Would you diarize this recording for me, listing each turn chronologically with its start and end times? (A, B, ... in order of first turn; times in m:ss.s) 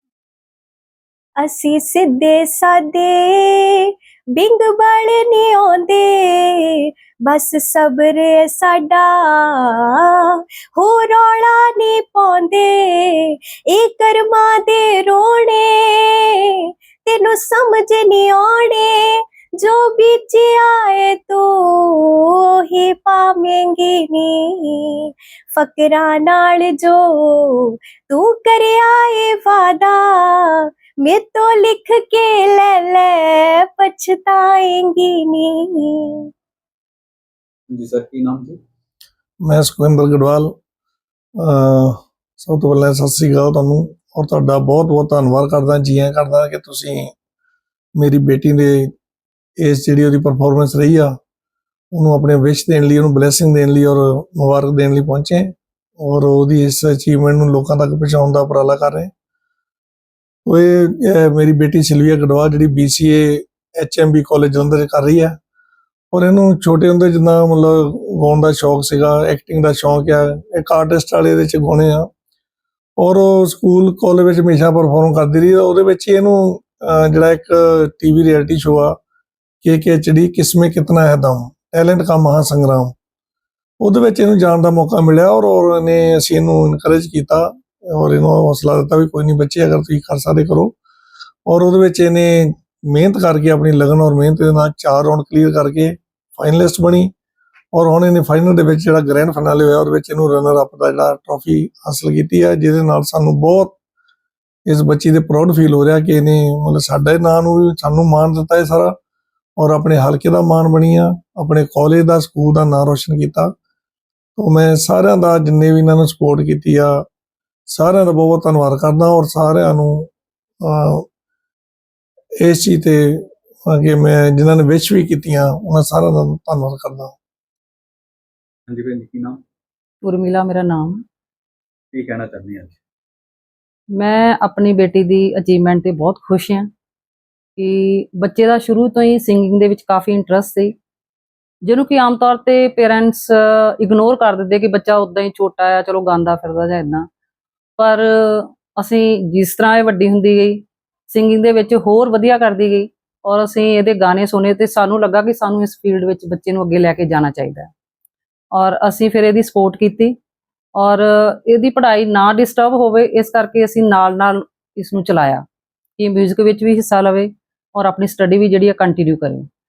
0:01.4-0:36.3 A
0:37.7-0:38.6 B
0:39.4-0:40.6 C
0:41.4-0:47.1 C
0:48.0-0:48.9 C
0:49.6-0:51.2 C
0:51.9-0:59.1 C
1:00.5-1:05.4 C
1:06.1-1:12.1 C
1:13.0-1:19.0 C
1:19.6-1:23.0 C
1:23.8-1:30.8 C
1:31.5-1:37.1 C
1:37.7-1:43.8 C
1:44.7-1:49.0 C
1:49.6-1:53.5 C
1:54.4-1:57.0 C
1:57.7-2:00.1 C
2:00.6-2:01.1 C
2:02.4-2:07.2 C
2:08.7-2:09.4 B
2:10.0-2:11.0 D
2:11.9-2:12.8 B
2:13.9-2:16.7 D
2:17.6-2:20.8 D
2:21.6-2:27.1 D
2:27.8-2:37.7 D
2:38.5-2:40.2 D
2:40.8-2:45.4 D
2:46.0-2:49.5 D